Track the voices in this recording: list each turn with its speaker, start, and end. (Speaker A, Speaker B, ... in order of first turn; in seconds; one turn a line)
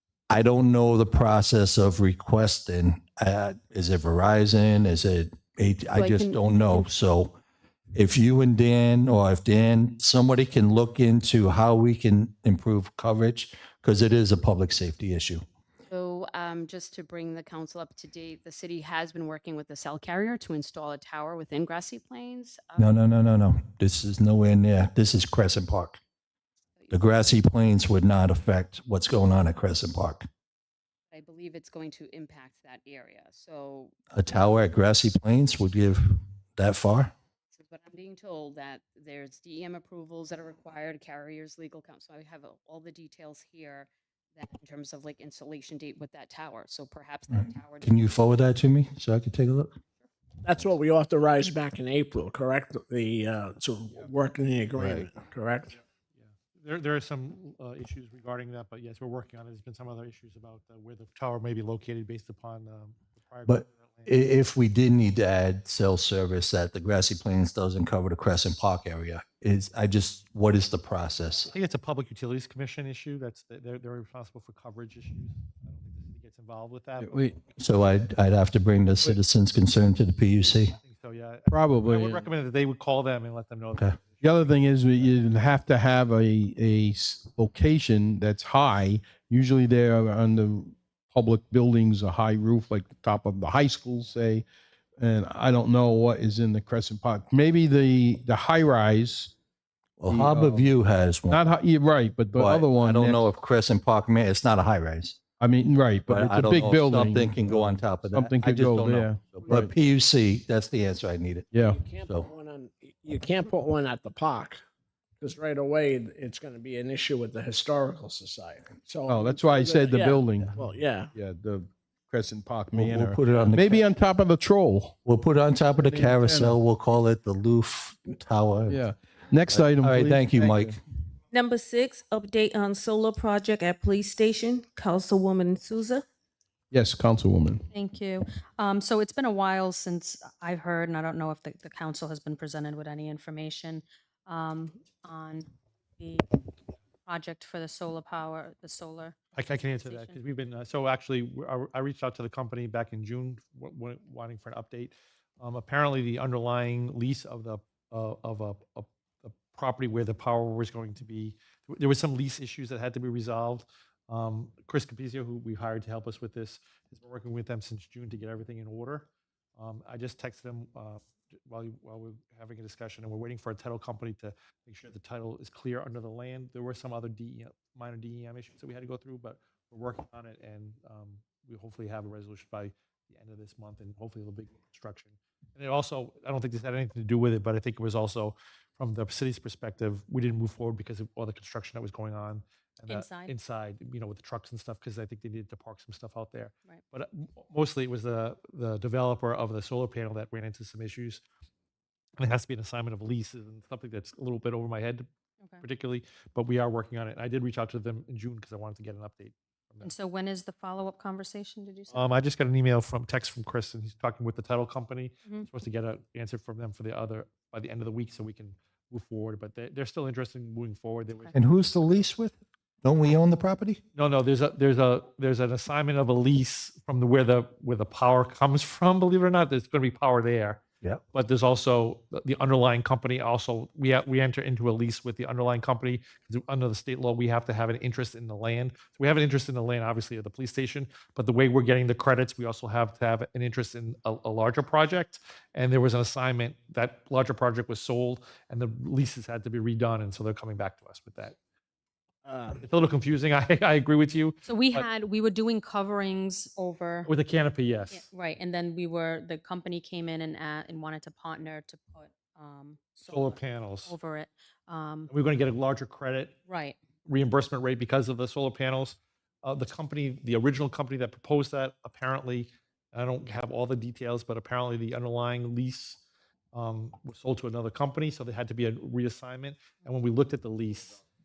Speaker A: 0.3-7.4
Speaker B: 5.9-6.8
Speaker A: 7.9-15.4
Speaker B: 15.9-22.9
Speaker A: 22.8-26.0
Speaker A: 26.9-30.2
Speaker B: 31.1-33.9
Speaker A: 34.1-36.0
Speaker A: 36.5-37.1
Speaker B: 37.5-48.2
Speaker A: 47.3-49.8
Speaker C: 50.4-55.8
Speaker A: 54.8-55.1
Speaker D: 56.1-64.1
Speaker A: 63.5-71.5
Speaker D: 71.5-77.3
Speaker E: 77.0-77.3
Speaker A: 77.6-80.8
Speaker D: 80.8-84.5
Speaker E: 81.5-82.3
Speaker E: 84.2-94.4
Speaker E: 95.0-99.3
Speaker A: 100.0-101.4
Speaker E: 100.1-100.7
Speaker E: 101.3-103.3
Speaker A: 102.3-105.2
Speaker E: 105.4-109.7
Speaker A: 106.1-111.5
Speaker E: 111.5-111.8
Speaker C: 111.6-114.6
Speaker C: 115.2-121.1
Speaker E: 119.1-120.6
Speaker E: 121.1-125.0
Speaker A: 122.7-123.8
Speaker A: 125.0-128.8
Speaker E: 125.8-126.6
Speaker E: 128.7-130.8
Speaker A: 129.5-130.8
Speaker F: 131.3-136.0
Speaker E: 136.7-137.6
Speaker G: 137.7-146.4
Speaker G: 147.1-149.2
Speaker D: 149.3-201.2
Speaker G: 149.8-150.2
Speaker G: 192.9-193.3
Speaker D: 202.2-205.1
Speaker D: 205.6-209.9
Speaker G: 209.8-212.2
Speaker D: 211.9-221.3
Speaker A: 221.3-223.8
Speaker D: 223.9-230.6
Speaker D: 231.1-251.3
Speaker C: 252.2-252.6
Speaker D: 252.6-254.8
Speaker G: 254.4-257.1
Speaker D: 257.1-258.1
Speaker G: 257.9-265.1
Speaker D: 263.1-263.9
Speaker D: 265.1-266.4
Speaker G: 266.5-266.8
Speaker D: 267.0-276.0
Speaker D: 276.5-281.0